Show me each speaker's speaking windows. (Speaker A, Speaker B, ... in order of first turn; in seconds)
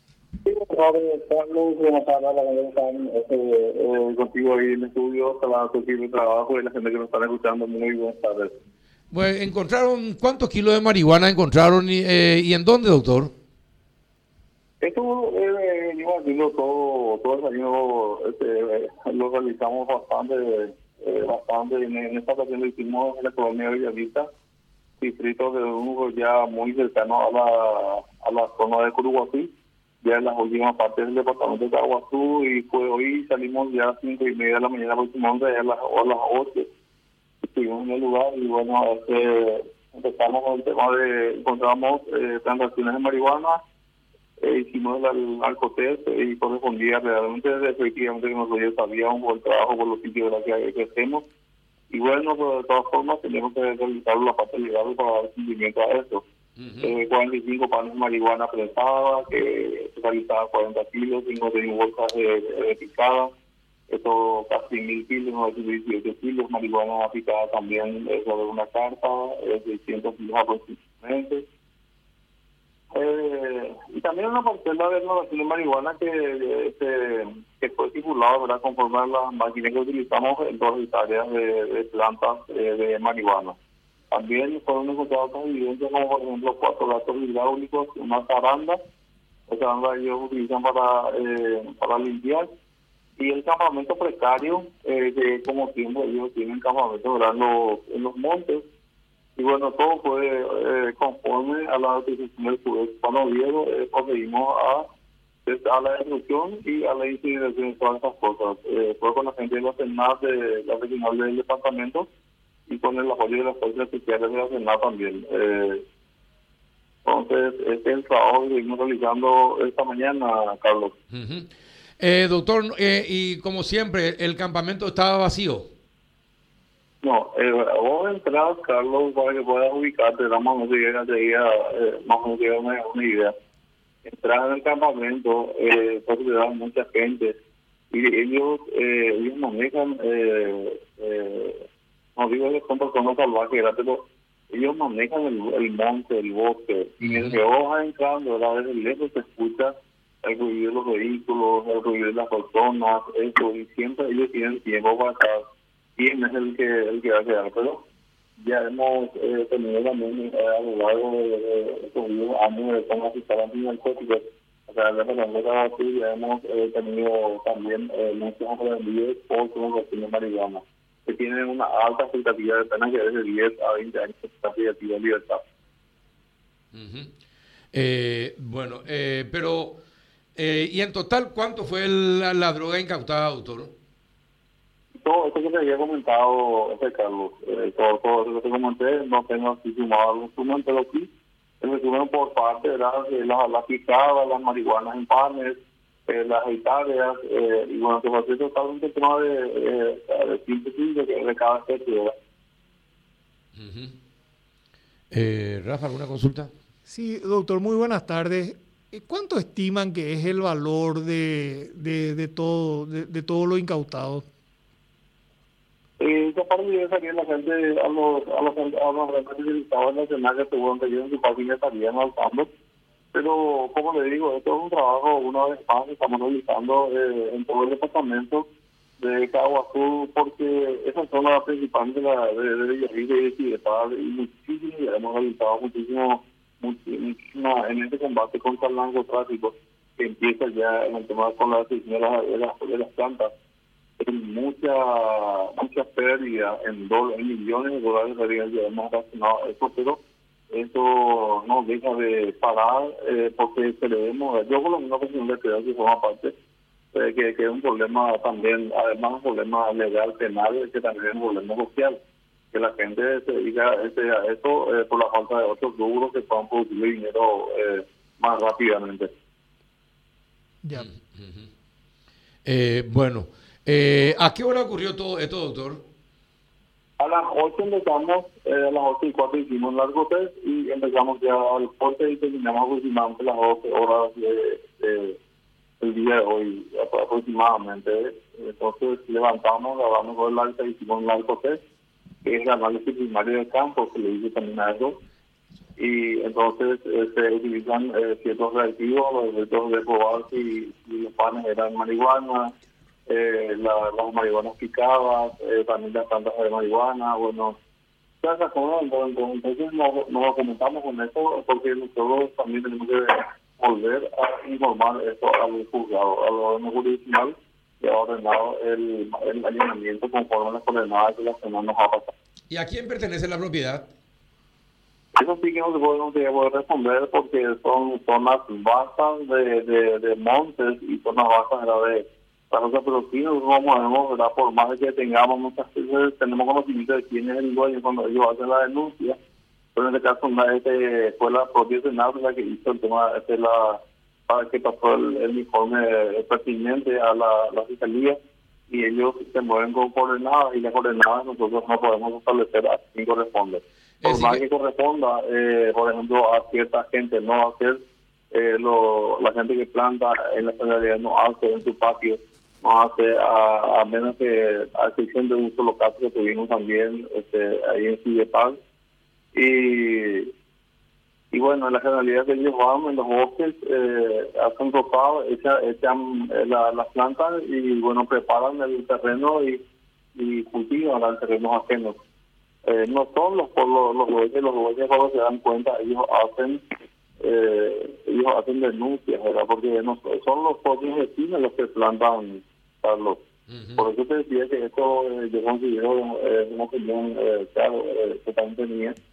Speaker A: 0.4-8.5, 14.8-24.3, 25.0-29.5, 30.0-36.7, 37.4-43.6, 44.4-51.3, 51.9-56.2, 56.8-63.3, 63.9-71.5, 72.9-83.6, 84.1-88.8, 89.5-92.5, 93.2-98.7, 99.4-104.8, 105.5-112.1, 112.7-115.8, 117.0-121.0, 127.0-133.3, 134.1-137.3, 137.9-149.7, 150.2-155.4, 156.0-157.8, 158.4-175.4, 184.9-191.1, 191.6-202.1, 216.0-222.5, 223.1-228.5, 229.0-243.3, 244.0-250.0, 250.5-256.3, 256.9-262.0, 262.5-269.1, 277.0-285.2, 285.8-291.6, 292.2-294.9, 295.8-302.5, 303.1-307.6, 308.2-322.1, 325.2-339.2, 339.8-348.2, 348.7-357.8, 358.3-368.6, 369.3-370.3, 371.3-379.6, 380.1-382.0, 382.7-386.6, 387.2-393.2, 393.8-398.9
Speaker B: 9.1-13.3, 56.6-56.9, 121.1-125.7, 147.0-147.4, 176.7-177.1, 177.7-179.8, 180.3-183.7, 203.6-203.9, 205.1-206.5, 270.7-271.5, 272.4-275.8, 322.5-323.9, 354.0-354.4, 393.5-393.8
Speaker C: 206.9-214.2